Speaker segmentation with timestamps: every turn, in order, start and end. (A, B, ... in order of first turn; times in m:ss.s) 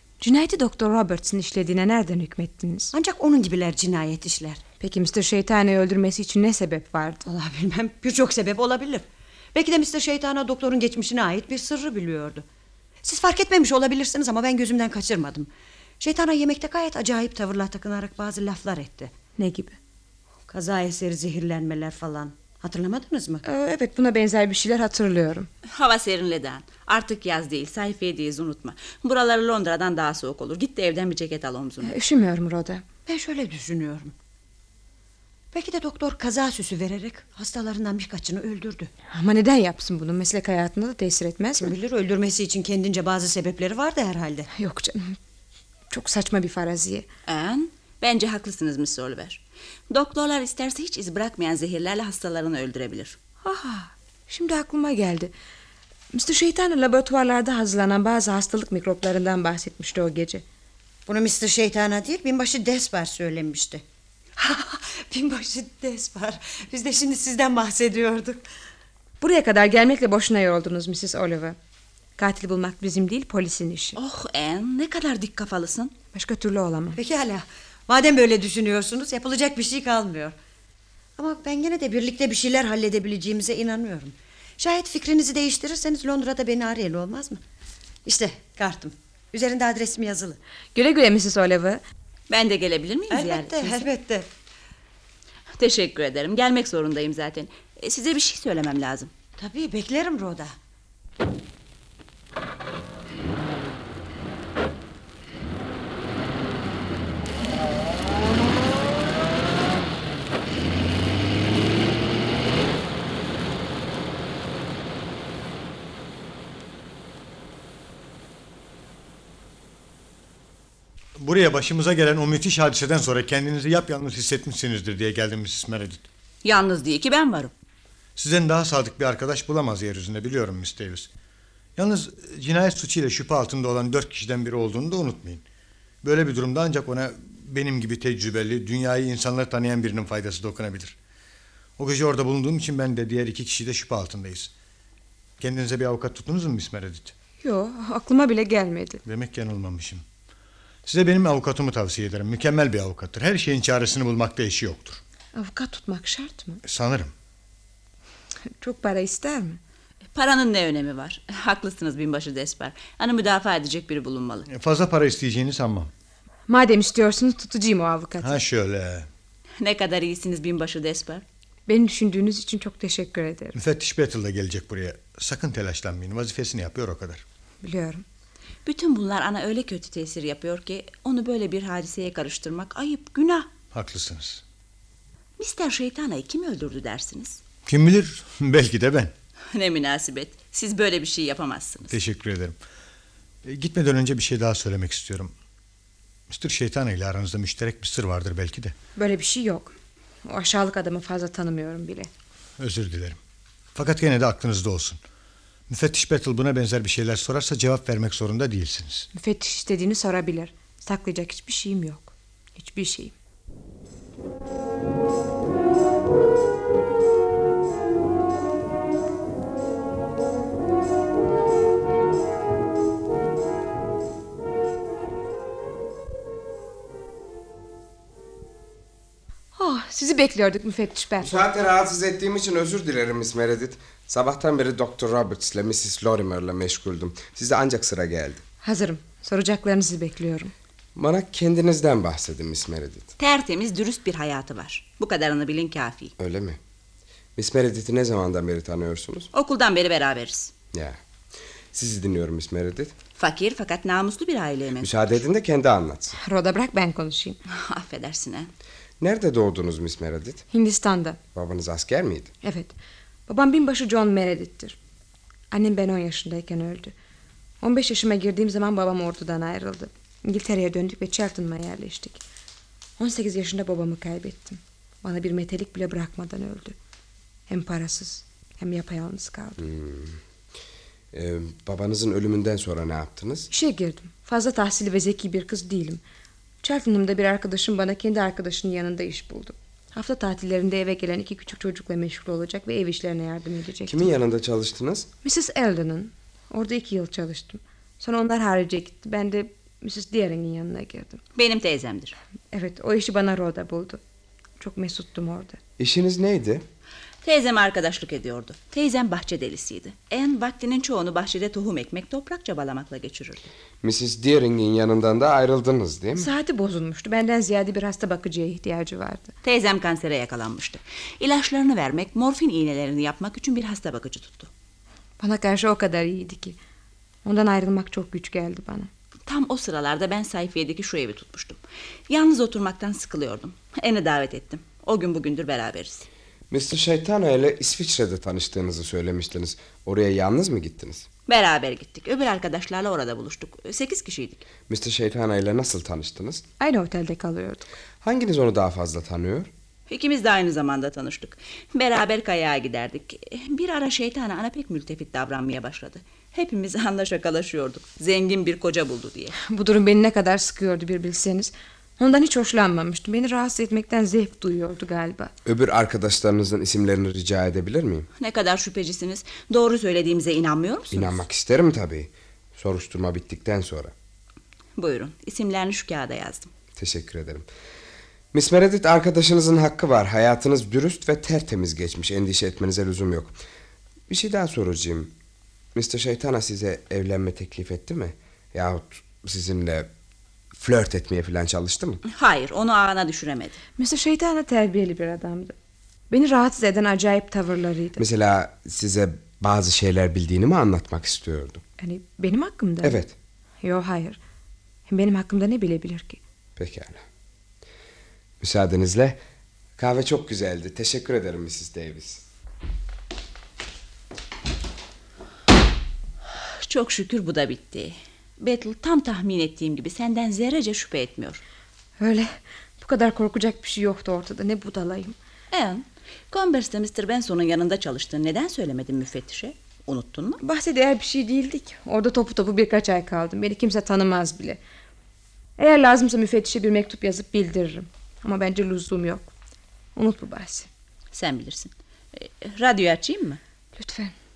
0:00.2-0:02.9 A
0:02.9-0:04.6 B
0:04.8-0:07.2 A
0:07.2-0:12.4 B
0:13.0-0:15.5 B
0:16.0-0:19.1 B
0:19.4-0:19.7 A
0:20.5-0:23.4 B
0:23.4-0:25.5 A
0:25.6-0:32.0 C
0:31.8-0:32.8 A
0:33.0-0:34.1 B
0:35.5-0:38.9 B
0:39.1-0:41.7 A
0:41.6-0:44.5 B
0:44.5-0:45.2 A
0:45.9-0:47.0 A
0:47.2-0:53.2 C
0:53.4-0:55.3 A
0:56.1-1:00.4 A
1:01.1-1:03.8 B
1:04.4-1:08.4 B
1:09.2-1:11.6 A
1:12.2-1:14.0 A
1:13.9-1:15.9 C
1:16.1-1:17.0 A
1:17.0-1:20.3 B
1:21.2-1:27.4 B
1:28.0-1:30.4 B
1:30.7-1:31.8 A
1:32.3-1:33.8 C
1:33.1-1:34.3 B
1:35.6-1:39.1 C
1:39.4-1:40.5 B
2:01.2-2:06.0 D
2:06.4-2:07.5 C
2:08.2-2:11.1 D
2:11.8-2:15.4 D
2:16.0-2:20.9 D
2:21.8-2:24.5 D
2:25.4-2:27.1 D
2:27.4-2:29.0 A
2:29.0-2:30.0 D
2:30.8-2:35.0 D
2:35.3-2:36.6 A
2:36.6-2:37.1 D
2:38.6-2:39.6 A
2:40.1-2:44.5 C
2:44.5-2:45.9 D
2:46.5-2:48.4 A
2:48.2-2:49.1 D
2:49.6-2:51.2 C
2:51.7-2:53.5 A
2:53.5-2:57.2 D
2:57.6-2:58.0 A
2:58.6-3:03.5 C
3:03.7-3:04.4 D
3:05.4-3:07.4 C
3:07.6-3:09.1 D
3:09.5-3:12.0 C
3:11.9-3:12.6 D
3:13.4-3:15.3 D
3:16.3-3:18.7 D
3:19.0-3:19.7 A
3:20.2-3:22.1 A
3:22.6-3:23.2 D
3:23.7-3:25.0 D
3:25.7-3:29.1 D
3:29.1-3:33.1 A
3:49.6-3:51.3 A
3:51.2-3:58.4 E
3:58.6-4:00.5 A
4:00.9-4:03.1 E
4:03.2-4:06.1 C
4:06.2-4:06.6 E
4:07.4-4:09.3 E
4:09.3-4:10.5 C
4:10.7-4:11.0 E
4:11.7-4:12.9 E
4:13.2-4:14.9 C
4:14.8-4:16.1 E
4:16.2-4:17.4 A
4:17.5-4:18.5 C
4:19.0-4:20.4 E
4:20.5-4:21.2 A
4:21.3-4:22.3 E
4:22.4-4:22.7 A
4:23.3-4:24.8 A
4:25.5-4:26.9 A
4:27.6-4:32.2 A
4:33.0-4:36.8 A
4:37.5-4:39.6 A
4:39.6-4:40.2 E
4:41.1-4:43.5 E
4:43.5-4:46.0 A
4:46.6-4:54.1 A
4:53.8-4:55.1 E
4:55.2-5:01.2 A
5:01.3-5:02.2 C
5:02.5-5:04.0 A
5:04.6-5:05.6 A
5:05.8-5:06.6 E
5:07.2-5:13.5 C
5:13.8-5:16.3 E
5:16.2-5:19.3 A
5:19.4-5:24.5 C
5:25.2-5:26.6 A
5:27.2-5:28.9 A
5:29.2-5:36.0 C
5:36.5-5:41.0 E
5:41.3-5:44.4 C
5:44.7-5:46.4 E
5:46.6-5:47.7 A
5:48.0-5:49.5 E
5:49.9-5:59.3 C
5:59.4-6:05.3 A
6:05.4-6:08.1 E
6:08.2-6:11.2 C
6:10.9-6:13.9 E
6:14.8-6:16.5 C
6:16.8-6:17.4 E
6:18.3-6:23.4 E
6:24.1-6:25.1 E
6:25.7-6:29.9 E
6:30.6-6:32.0 E
6:32.0-6:33.6 C
6:33.8-6:35.5 A
6:36.1-6:38.0 A
6:38.0-6:41.6 E
6:41.8-6:43.0 A
6:42.8-6:43.1 E
6:43.6-6:44.2 A
6:44.9-6:46.2 A
6:46.6-6:47.0 E
6:48.4-6:49.2 E
6:49.8-6:52.2 E
6:56.6-7:01.4 C
7:02.0-7:05.1 A
7:05.5-7:10.4 C
7:10.4-7:14.6 A
7:15.6-7:19.3 A
7:20.0-7:20.7 A
7:21.1-7:23.4 C
7:23.8-7:24.1 A